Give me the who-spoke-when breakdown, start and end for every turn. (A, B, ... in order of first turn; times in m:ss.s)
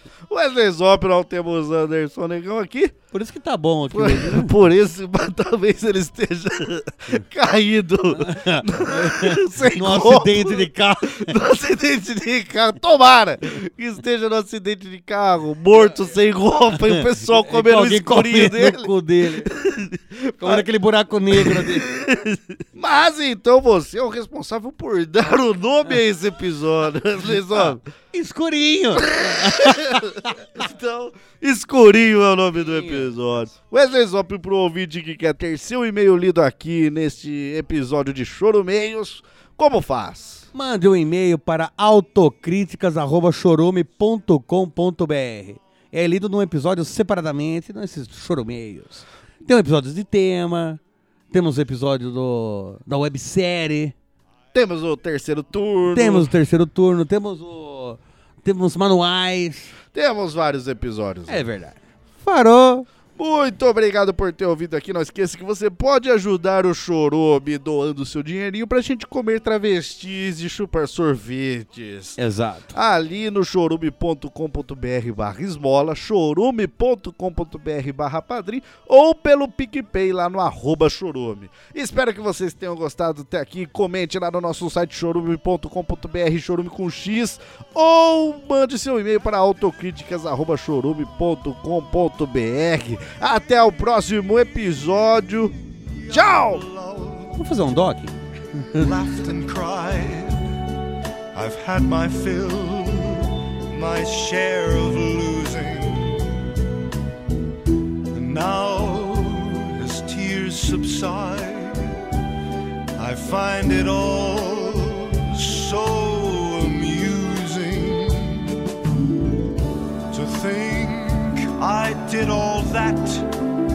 0:00.3-0:03.0 A
0:03.1-0:04.6 B
0:03.9-0:20.6 A
0:08.2-0:11.4 B
0:16.9-0:19.5 B
0:20.4-0:21.9 B
0:21.3-0:27.8 A
0:27.6-0:30.4 B
0:29.0-0:40.5 A
0:32.6-0:33.1 B
0:40.5-0:54.0 B
0:54.5-0:56.3 A
0:55.9-0:59.7 B
0:59.9-1:01.5 A
1:01.3-1:02.9 B
1:03.2-1:12.2 A
1:12.2-1:12.7 B
1:12.7-1:35.6 A
1:36.1-1:37.4 C
1:36.1-1:36.6 A
1:37.4-1:38.9 B
1:38.8-1:40.5 C
1:41.3-1:46.4 C
1:48.1-1:52.0 C
1:53.0-1:58.6 C
2:00.1-2:03.4 C